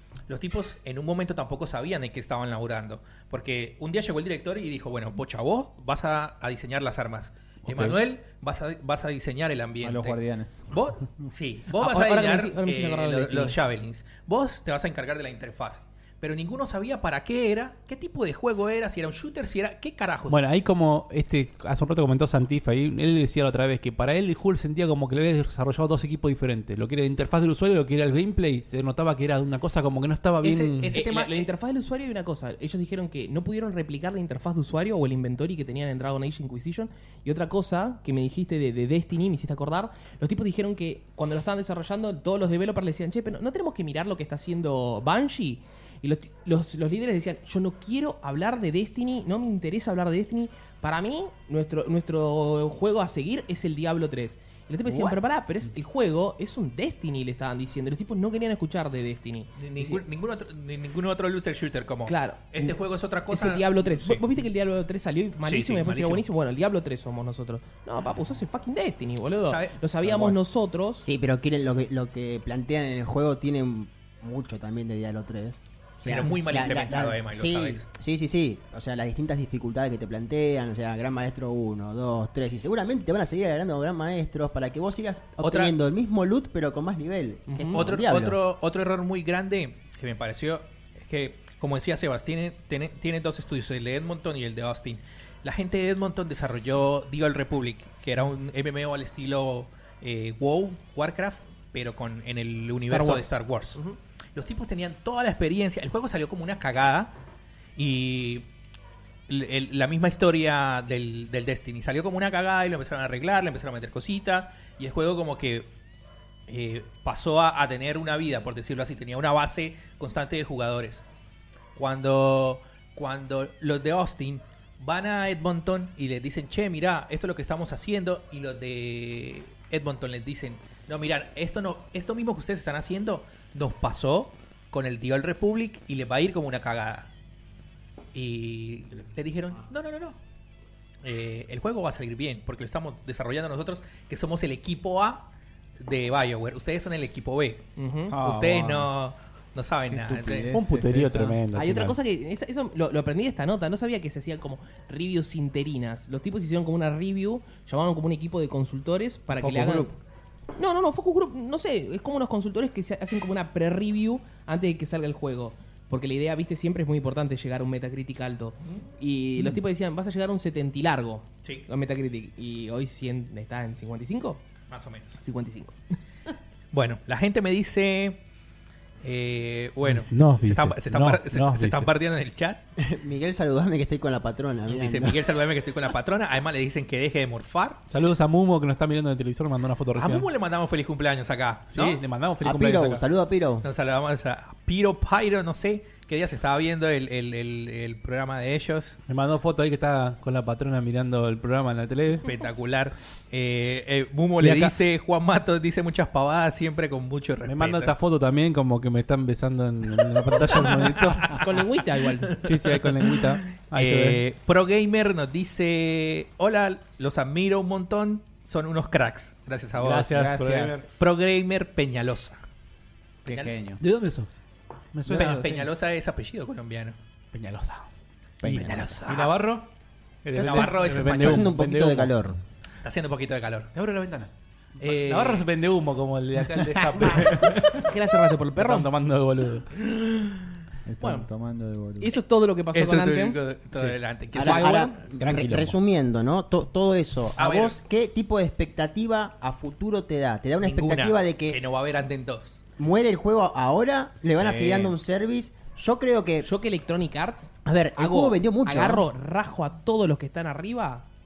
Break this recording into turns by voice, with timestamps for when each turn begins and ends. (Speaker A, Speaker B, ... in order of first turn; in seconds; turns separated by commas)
Speaker A: 0.3-20.4, Speaker B: 7.6-8.0, Speaker C: 9.8-10.7, Speaker D: 11.8-13.6, Speaker B: 20.3-31.0, Speaker A: 30.4-31.5, Speaker D: 30.9-60.0, Speaker A: 54.9-55.2, Speaker A: 59.6-64.2, Speaker D: 62.0-62.8, Speaker D: 63.3-71.0, Speaker A: 65.4-66.2, Speaker A: 69.4-70.3, Speaker E: 71.0-88.4, Speaker A: 76.0-77.8, Speaker A: 85.4-85.8, Speaker D: 87.5-87.8, Speaker A: 87.7-103.8, Speaker D: 102.8-104.0, Speaker A: 104.3-107.1, Speaker A: 107.8-108.5, Speaker A: 109.3-115.7, Speaker A: 116.5-121.0, Speaker A: 121.8-137.1, Speaker A: 138.1-140.2, Speaker A: 141.0-150.5, Speaker D: 147.8-148.2, Speaker C: 148.1-148.9, Speaker C: 149.9-151.4, Speaker B: 150.5-152.0, Speaker D: 151.5-159.9, Speaker C: 159.3-159.9, Speaker D: 160.6-174.4, Speaker A: 174.7-175.1, Speaker D: 175.2-175.8, Speaker A: 176.7-178.2, Speaker A: 179.0-182.6, Speaker B: 179.9-181.9, Speaker E: 182.8-185.3, Speaker A: 184.7-187.8, Speaker B: 187.9-190.3, Speaker A: 189.9-192.0, Speaker B: 191.7-193.0, Speaker E: 192.4-193.7, Speaker A: 193.6-199.0, Speaker B: 199.1-202.3, Speaker A: 202.2-207.9, Speaker B: 204.4-204.7, Speaker B: 207.4-211.4, Speaker A: 210.5-211.4, Speaker D: 211.3-212.4, Speaker B: 212.4-214.2, Speaker A: 212.4-220.2, Speaker B: 219.8-220.8, Speaker C: 220.1-220.8, Speaker A: 220.9-222.4, Speaker C: 223.2-223.8, Speaker A: 223.2-223.5, Speaker B: 223.8-224.4, Speaker B: 224.9-225.6, Speaker A: 225.1-227.0, Speaker C: 225.1-225.6, Speaker B: 227.3-227.9, Speaker C: 228.4-228.9, Speaker B: 228.4-229.7, Speaker A: 228.5-229.4, Speaker B: 230.2-232.1, Speaker A: 230.3-231.5, Speaker E: 230.7-232.4, Speaker A: 232.8-233.7, Speaker B: 233.7-237.9, Speaker A: 234.8-235.5, Speaker D: 236.9-238.9, Speaker B: 238.6-239.8, Speaker C: 240.8-242.2, Speaker D: 241.0-241.2, Speaker D: 242.0-243.4, Speaker A: 242.7-245.0, Speaker E: 244.3-251.6, Speaker D: 244.4-245.0, Speaker B: 245.2-245.8, Speaker A: 247.4-247.8, Speaker A: 250.6-252.6, Speaker E: 252.8-256.5, Speaker C: 254.3-254.9, Speaker D: 256.4-261.1, Speaker E: 257.6-259.1